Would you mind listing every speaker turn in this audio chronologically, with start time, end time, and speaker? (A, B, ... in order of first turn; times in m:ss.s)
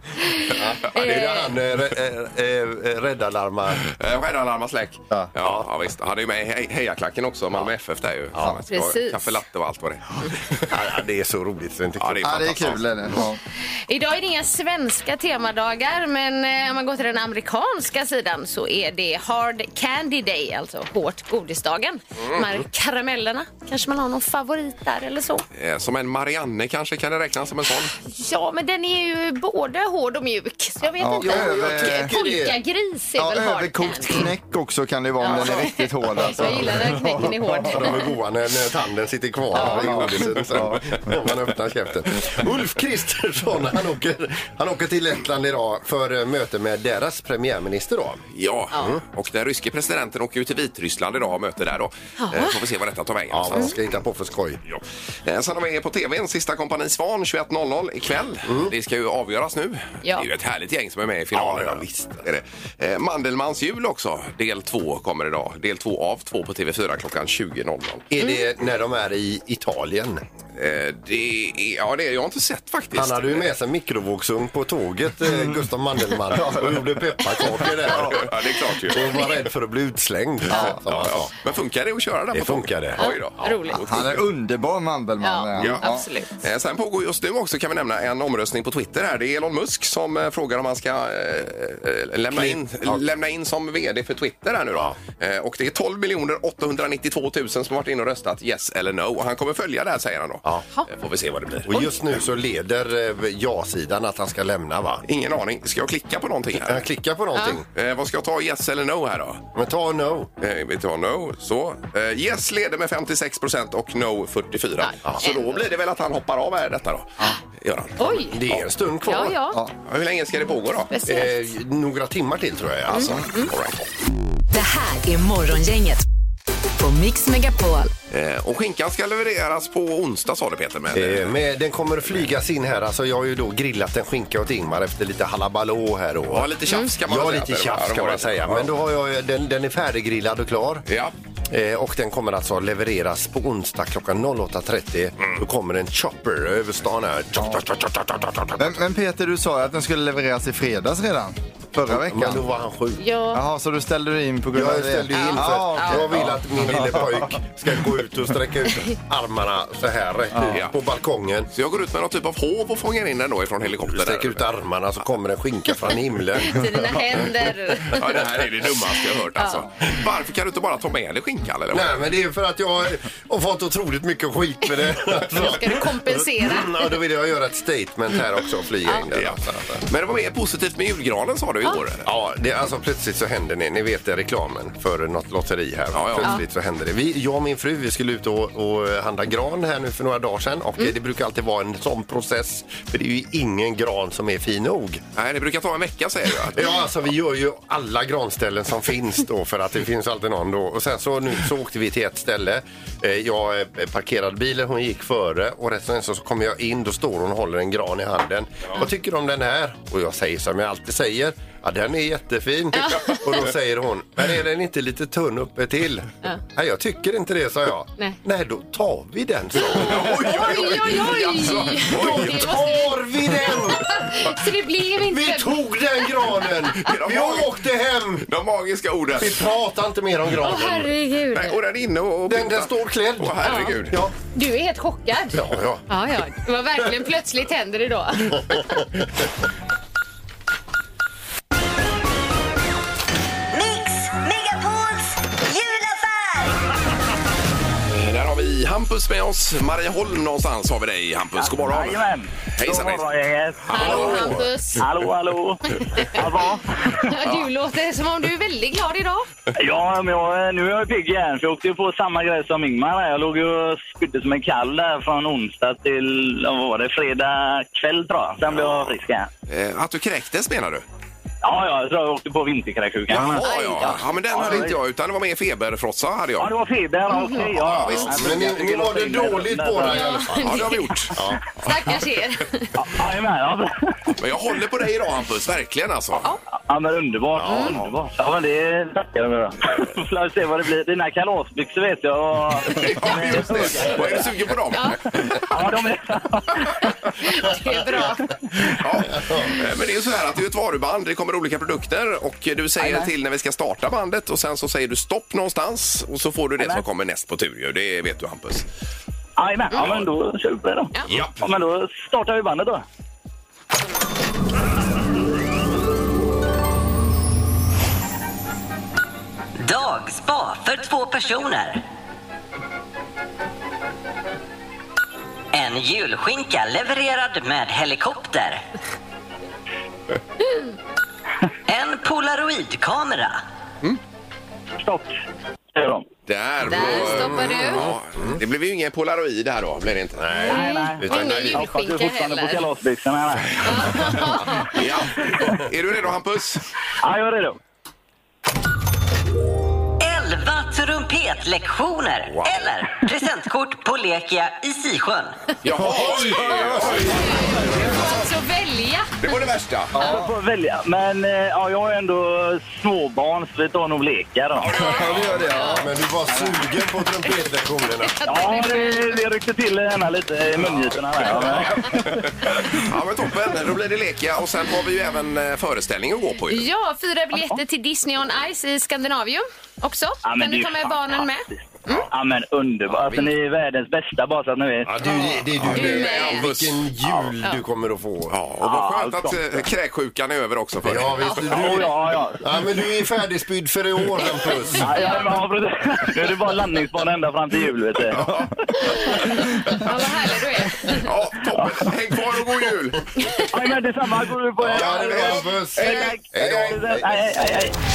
0:00.2-0:01.5 A
0:00.6-0:03.8 B
0:03.8-0:10.8 C
0:05.4-0:05.7 B
0:08.3-0:08.6 B
0:08.7-0:09.4 A
0:10.7-0:12.7 B
0:12.0-0:12.8 C
0:12.2-0:13.4 D
0:13.9-0:25.4 A
0:25.6-0:28.0 C
0:28.0-0:34.3 A
0:31.0-0:32.1 D
0:31.2-0:32.6 B
0:33.2-0:37.9 D
0:35.2-0:38.1 A
0:37.6-0:49.0 B
0:39.5-0:39.9 A
0:39.5-0:41.1 D
0:48.3-0:53.7 C
0:52.2-0:52.6 A
0:53.3-0:54.6 B
0:54.7-1:08.1 C
0:58.4-0:58.7 B
1:01.3-1:02.3 B
1:08.1-1:10.2 B
1:10.6-1:13.5 C
1:12.9-1:18.3 B
1:16.3-1:16.8 D
1:17.8-1:19.1 C
1:18.0-1:18.2 D
1:18.9-1:21.3 B
1:20.5-1:20.8 D
1:20.9-1:24.2 C
1:22.3-1:23.1 B
1:23.0-1:23.8 A
1:23.8-1:26.1 D
1:25.2-1:26.3 A
1:25.6-1:25.8 C
1:26.4-1:41.8 C
1:32.3-1:33.0 B
1:41.6-1:45.0 B
1:45.1-1:46.9 C
1:46.6-1:47.7 B
1:47.7-1:49.5 C
1:49.6-1:50.3 B
1:50.4-1:58.7 C
1:54.8-1:55.6 A
1:58.0-1:58.4 A
1:58.3-1:59.4 B
1:59.0-1:59.6 A
1:59.9-2:00.9 C
2:00.9-2:01.5 A
2:01.1-2:03.3 B
2:02.9-2:03.9 C
2:02.9-2:03.5 A
2:04.5-2:06.0 E
2:06.8-2:07.9 E
2:08.1-2:11.4 C
2:10.9-2:16.5 B
2:16.3-2:18.7 C
2:17.1-2:20.8 B
2:20.9-2:21.1 C
2:21.5-2:28.7 B
2:28.6-2:32.4 D
2:31.9-2:33.0 B
2:33.0-2:33.4 A
2:33.3-2:37.4 D
2:34.5-2:41.5 B
2:35.1-2:36.1 A
2:40.5-2:40.8 C
2:41.5-2:44.4 C
2:43.8-2:47.2 B
2:46.4-2:48.2 A
2:47.8-2:52.0 C
2:49.4-2:49.6 A
2:51.7-2:59.8 B
2:55.2-2:56.9 A
2:59.1-3:02.1 C
3:02.0-3:15.0 B
3:05.9-3:06.4 C
3:15.2-3:16.7 C
3:16.5-3:43.8 B
3:32.7-3:33.3 A
3:39.6-3:46.0 A
3:39.7-3:42.7 C
3:45.1-3:48.3 B
3:46.8-3:47.6 C
3:48.2-3:49.5 C
3:49.2-3:50.9 B
3:50.4-3:51.6 A
3:51.3-3:54.0 C
3:52.3-3:54.1 B
3:53.4-3:53.8 A
3:54.3-3:58.9 A
3:55.3-3:55.8 B
4:07.9-4:13.1 C
4:11.4-4:17.0 F
4:13.7-4:14.5 C
4:13.7-4:14.8 A
4:15.7-4:16.2 A
4:17.0-4:19.3 A
4:19.6-4:29.3 F
4:29.5-4:30.8 C
4:31.4-4:34.8 F
4:33.1-4:36.5 C
4:33.4-4:34.1 A
4:36.4-4:40.2 F
4:37.1-4:37.5 A
4:37.5-4:38.4 C
4:37.9-4:41.4 B
4:39.8-4:41.0 A
4:40.4-4:41.2 C
4:41.6-4:42.7 A
4:42.8-4:44.1 F
4:44.2-4:46.3 C
4:46.7-4:54.3 F
4:47.4-4:47.8 B
4:47.4-4:47.8 A
4:52.7-4:55.4 C
4:54.7-4:55.0 A
4:55.3-4:56.9 F
4:57.2-4:58.3 A
4:58.7-5:08.7 C
4:59.2-4:59.5 B
5:02.8-5:03.1 F
5:06.6-5:06.8 F
5:09.4-5:12.8 F
5:09.8-5:10.1 C
5:11.1-5:11.4 C
5:19.6-5:21.8 G
5:25.5-5:28.6 G
5:31.7-5:33.4 G
5:34.8-5:35.2 F
5:35.7-5:36.1 F
5:36.3-5:40.4 C
5:36.6-5:37.8 A
5:36.7-5:38.4 B
5:40.2-5:41.6 B
5:40.5-5:42.6 A
5:40.5-5:43.6 F
5:41.1-5:41.5 C
5:43.6-5:44.9 A
5:43.8-5:46.6 C
5:47.0-5:47.6 F
5:50.0-5:55.4 G
5:55.6-5:57.9 C
5:55.8-5:57.8 D
5:56.4-5:57.1 B
5:56.8-5:59.2 A
5:59.2-6:00.0 C
6:00.0-6:00.3 D
6:00.0-6:04.8 F
6:04.6-6:05.5 C
6:04.8-6:05.9 D
6:04.8-6:05.8 A
6:05.6-6:08.2 B
6:06.3-6:06.6 F
6:08.0-6:09.2 A
6:08.3-6:12.3 F
6:11.2-6:16.7 C
6:16.5-6:22.1 A
6:20.2-6:21.6 F
6:22.1-6:25.1 F
6:24.8-6:28.4 B
6:25.0-6:26.5 A
6:25.6-6:27.1 C
6:28.3-6:31.3 C
6:28.6-6:29.6 F
6:30.8-6:35.1 B
6:31.2-6:31.7 A
6:31.4-6:32.4 F
6:34.8-6:35.4 A
6:34.8-6:38.5 F
6:38.1-6:39.7 C
6:38.8-6:41.1 A
6:40.8-6:43.1 C
6:41.6-6:41.9 F
6:43.2-6:43.4 A
6:43.5-6:47.7 F
6:44.6-6:47.4 B
6:44.7-6:46.2 C